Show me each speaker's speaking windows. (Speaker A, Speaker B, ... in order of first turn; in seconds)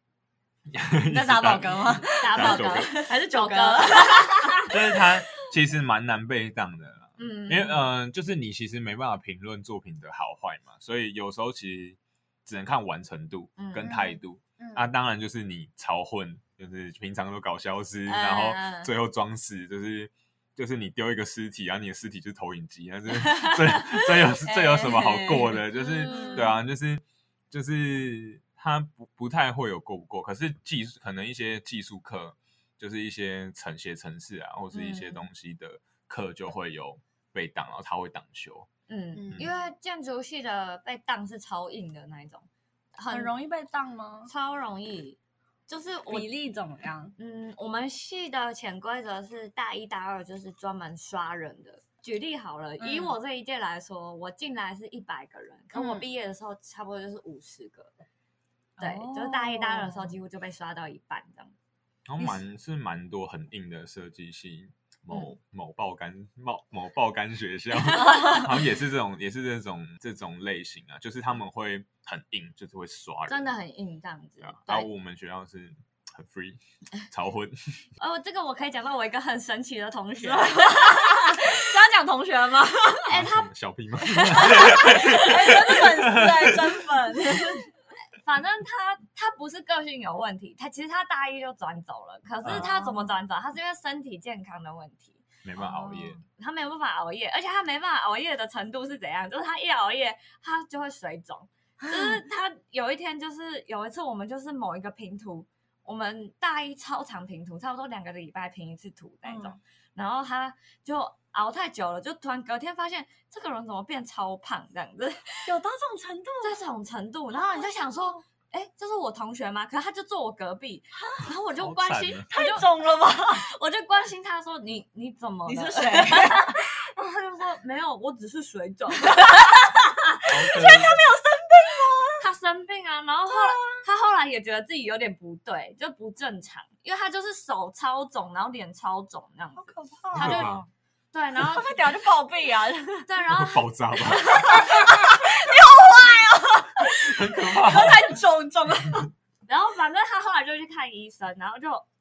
Speaker A: 0.7-2.9, 4.7-38.7, 62.1-73.5, 74.4-77.8, 83.1-86.8, 92.4-92.7, 95.4-96.2, 121.5-122.3, 130.3-131.0, 140.1-140.6, 143.2-144.6, 146.9-148.1
Speaker B: 1.1-4.7, 14.6-14.9, 26.0-26.6, 39.1-39.5, 43.1-44.3, 46.1-47.1, 52.8-53.2, 55.7-56.0, 58.8-60.2, 80.2-83.2, 84.3-87.6, 92.7-93.0, 101.8-102.2, 109.2-109.6, 115.5-116.6, 117.3-118.2, 122.3-123.5, 125.5-126.6, 129.2-129.6, 130.5-132.2, 133.3-133.8, 139.6-140.7, 141.3-143.1, 144.0-149.1
Speaker C: 2.2-4.8, 7.2-7.8, 13.6-14.2, 18.1-18.9, 23.2-26.6, 34.7-35.3, 38.9-43.3, 44.3-46.3, 47.2-57.9, 58.8-61.5, 65.1-65.3, 68.1-68.4, 73.3-74.9, 78.0-81.5, 83.0-83.5, 84.1-85.5, 88.2-115.5, 116.4-122.7, 123.3-130.6, 132.2-141.8, 143.1-143.6, 149.5-151.8